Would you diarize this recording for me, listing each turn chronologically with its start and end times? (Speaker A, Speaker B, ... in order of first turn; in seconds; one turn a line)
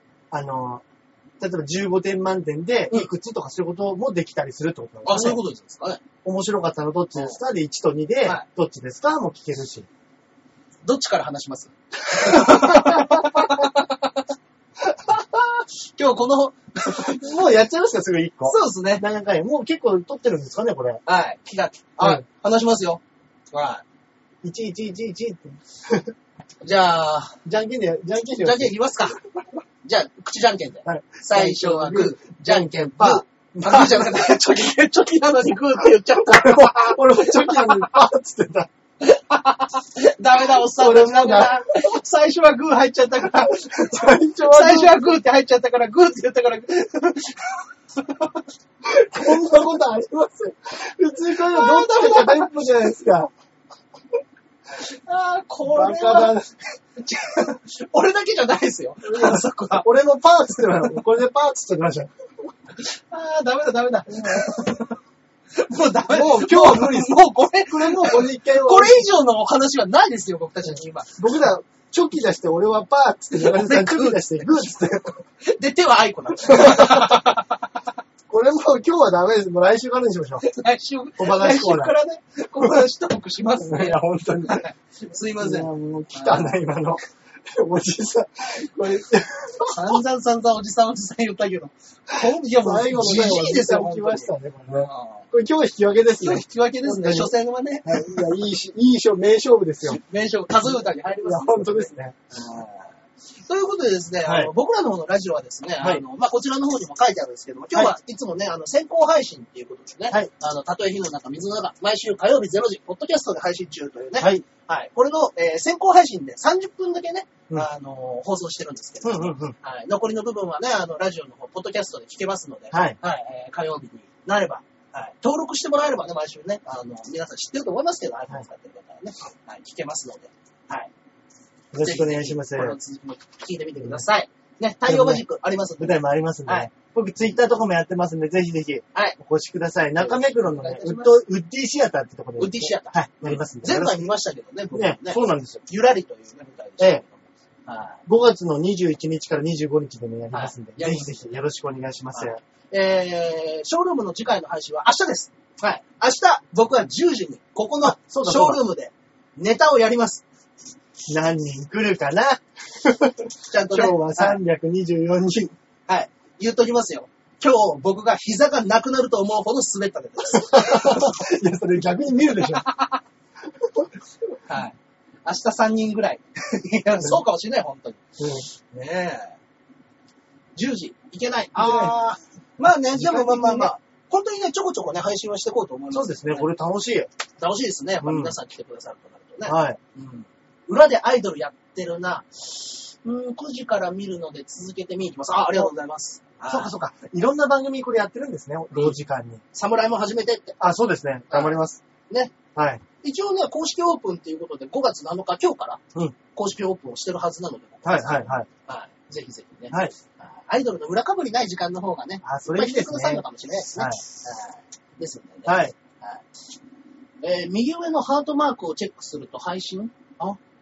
Speaker A: 0.3-0.8
Speaker A: 1.4-5.4
Speaker B: 5.0-6.0
Speaker A: 6.2-9.9
Speaker B: 10.8-14.2
Speaker A: 12.2-13.5
Speaker B: 15.0-17.2
Speaker A: 16.9-21.0
Speaker B: 18.4-19.0
Speaker B: 21.1-23.8
Speaker A: 24.4-26.1
Speaker B: 26.6-27.4
Speaker A: 27.4-28.8
Speaker B: 28.4-29.2
Speaker B: 29.8-38.0
Speaker A: 30.8-34.3
Speaker A: 36.1-38.7
Speaker B: 39.0-43.9
Speaker A: 40.5-41.9
Speaker A: 43.4-45.1
Speaker B: 44.4-48.4
Speaker A: 48.8-53.3
Speaker B: 51.4-52.6
Speaker B: 54.8-56.4
Speaker A: 55.6-56.5
Speaker B: 57.0-59.9
Speaker A: 59.0-62.1
Speaker B: 62.8-65.0
Speaker A: 64.1-64.7
Speaker B: 65.5-71.4
Speaker A: 66.1-69.1
Speaker A: 71.2-75.2
Speaker B: 73.3-74.7
Speaker B: 75.4-77.7
Speaker A: 76.4-77.3
Speaker A: 78.3-80.4
Speaker B: 80.4-86.6
Speaker A: 81.2-81.9
Speaker A: 83.6-84.7
Speaker A: 85.4-90.0
Speaker B: 89.7-95.3
Speaker A: 92.2-97.3
Speaker B: 96.2-98.2
Speaker A: 97.8-100.0
Speaker B: 99.8-130.9
Speaker A: 100.6-102.2
Speaker A: 104.2-104.5
Speaker A: 114.2-114.5
Speaker A: 119.0-119.5
Speaker A: 122.7-123.0
Speaker A: 131.7-132.8
Speaker B: 131.8-136.7
Speaker A: 134.8-135.2
Speaker A: 135.8-144.1
Speaker B: 140.0-141.2
Speaker B: 142.4-148.0
Speaker A: 144.7-145.6
Speaker A: 148.1-152.4
Speaker B: 150.3-151.4
Speaker B: 152.1-160.2
Speaker A: 157.8-158.6
Speaker A: 161.1-165.5
Speaker B: 163.5-164.4
Speaker B: 165.9-171.2
Speaker A: 170.3-172.7
Speaker B: 172.4-173.0
Speaker B: 174.5-179.4
Speaker A: 178.2-178.4
Speaker B: 180.5-186.5
Speaker A: 181.6-181.9
Speaker A: 182.9-183.7
Speaker A: 185.9-187.1
Speaker B: 187.4-196.7
Speaker A: 188.0-188.3
Speaker A: 189.4-189.8
Speaker A: 196.5-199.4
Speaker B: 198.7-199.0
Speaker B: 199.5-200.6
Speaker A: 200.6-201.8
Speaker B: 201.3-201.6
Speaker B: 202.1-202.3
Speaker A: 202.5-202.8
Speaker B: 203.0-205.8
Speaker B: 206.3-216.2
Speaker A: 207.8-208.5
Speaker A: 212.2-214.0
Speaker A: 215.4-215.7
Speaker B: 217.2-220.4